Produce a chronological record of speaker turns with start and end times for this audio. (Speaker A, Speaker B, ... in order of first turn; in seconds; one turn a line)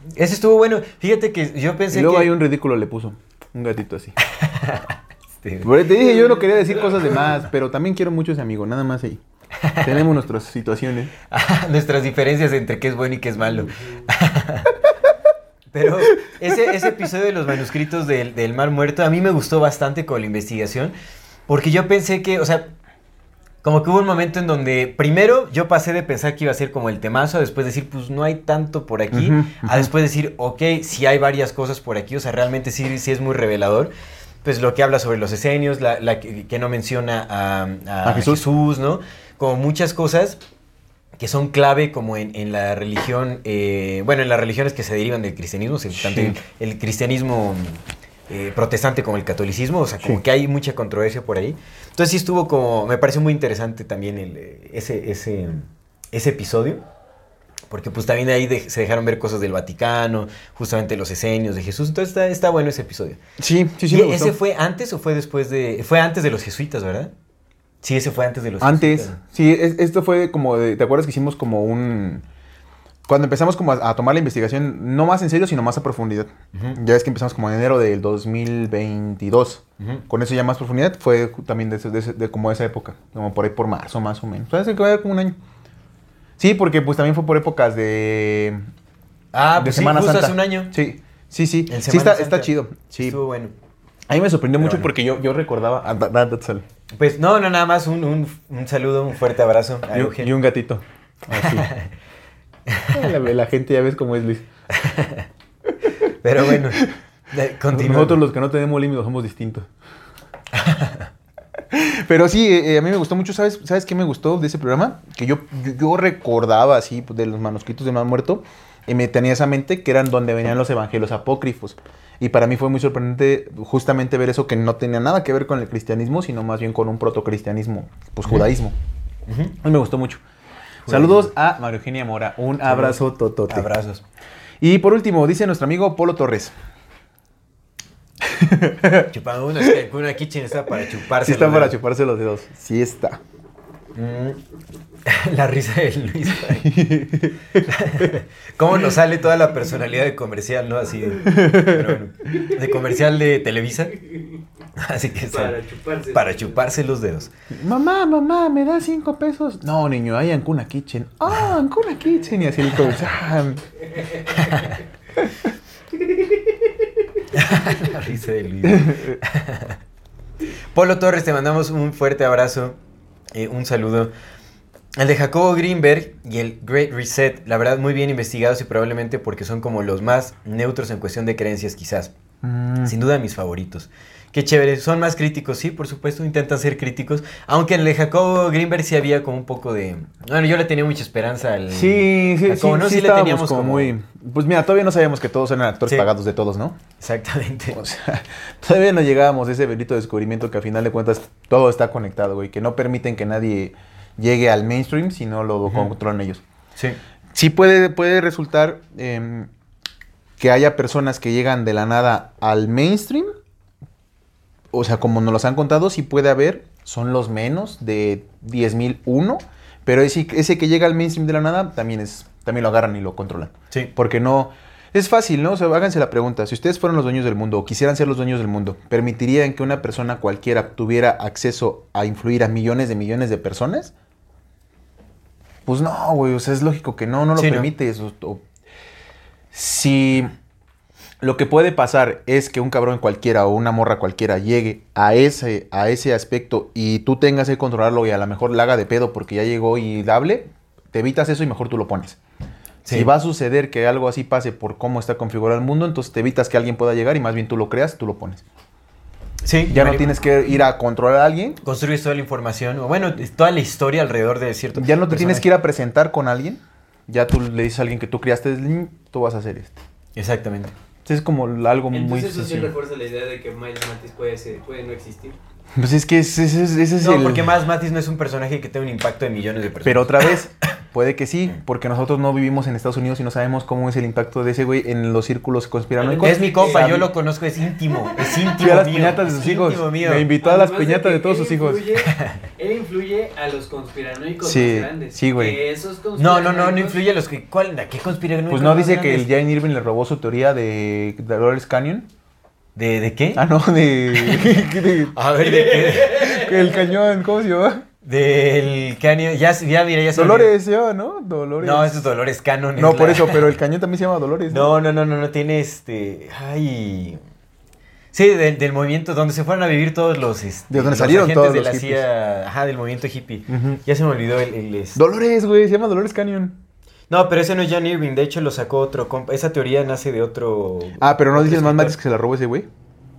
Speaker A: 0.1-2.3
Speaker B: 1.9-4.1
Speaker A: 4.3-5.8
Speaker B: 5.6-9.2
Speaker C: 6.0-7.1
Speaker A: 9.6-10.0
Speaker B: 9.8-11.1
Speaker A: 11.3-14.8
Speaker A: 15.7-20.9
Speaker B: 16.5-16.9
Speaker A: 21.5-22.7
Speaker A: 23.6-33.9
Speaker B: 29.1-29.9
Speaker A: 34.4-40.4
Speaker B: 38.0-38.4
Speaker A: 41.2-56.8
Speaker B: 45.9-46.4
Speaker A: 57.7-63.2
Speaker B: 63.4-64.4
Speaker A: 63.9-67.1
Speaker A: 67.8-69.2
Speaker B: 68.6-72.2
Speaker B: 73.1-85.4
Speaker B: 86.4-88.6
Speaker A: 89.3-90.7
Speaker B: 89.6-93.2
Speaker A: 91.7-93.5
Speaker B: 94.1-96.6
Speaker A: 94.6-94.9
Speaker A: 96.9-100.3
Speaker B: 99.9-101.7
Speaker A: 101.3-101.9
Speaker A: 102.7-103.0
Speaker B: 102.9-104.5
Speaker A: 104.7-105.3
Speaker A: 106.2-108.2
Speaker B: 106.4-106.9
Speaker B: 107.7-109.7
Speaker A: 110.5-111.1
Speaker B: 111.7-128.7
Speaker A: 129.3-129.6
Speaker B: 129.6-130.2
Speaker A: 130.8-131.3
Speaker B: 130.9-133.7
Speaker A: 132.6-134.0
Speaker B: 134.6-136.5
Speaker B: 138.2-139.7
Speaker A: 139.1-141.7
Speaker B: 141.2-143.2
Speaker A: 143.9-144.4
Speaker A: 145.0-146.8
Speaker B: 146.4-148.1
Speaker A: 147.6-153.9
Speaker B: 151.2-152.0
Speaker C: 154.0-154.4
Speaker A: 154.8-155.6
Speaker C: 155.2-156.7
Speaker A: 156.1-157.3
Speaker B: 157.5-163.7
Speaker A: 164.3-164.8
Speaker A: 167.3-169.8
Speaker B: 168.6-169.2
Speaker A: 170.7-172.8
Speaker A: 173.3-174.1
Speaker A: 175.0-182.1
Speaker B: 182.4-182.9
Speaker A: 182.8-193.9
Speaker B: 191.7-196.8
Speaker A: 197.0-197.8
Speaker B: 197.7-206.4
Speaker B: 207.3-209.5
Speaker B: 210.4-213.3
Speaker B: 214.7-233.9
Speaker B: 235.7-238.4
Speaker A: 237.4-237.7
Speaker B: 239.5-240.3
Speaker B: 241.2-252.2
Speaker A: 252.8-253.1
Speaker B: 252.9-258.4
Speaker A: 259.4-260.2
Speaker B: 259.7-261.6
Speaker A: 261.6-265.5
Speaker B: 264.7-269.8
Speaker A: 270.1-270.7
Speaker B: 271.1-272.7
Speaker C: 271.9-275.4
Speaker B: 275.8-277.5
Speaker A: 277.0-280.3
Speaker B: 279.8-287.1
Speaker C: 286.0-287.0
Speaker A: 286.2-290.3
Speaker B: 288.6-291.9
Speaker C: 290.4-297.0
Speaker A: 292.0-292.4
Speaker B: 294.4-295.6
Speaker A: 296.1-299.4
Speaker B: 298.5-302.1
Speaker A: 302.8-303.4
Speaker B: 303.4-305.1
Speaker A: 304.1-306.4
Speaker C: 305.4-306.7
Speaker B: 306.1-307.8
Speaker A: 308.0-310.5
Speaker B: 310.1-312.0
Speaker A: 311.6-313.5
Speaker B: 312.8-314.7
Speaker A: 314.5-317.2
Speaker A: 318.1-325.0
Speaker B: 320.7-322.1
Speaker B: 323.5-323.8
Speaker B: 324.9-326.6
Speaker A: 327.1-332.0
Speaker B: 331.0-332.7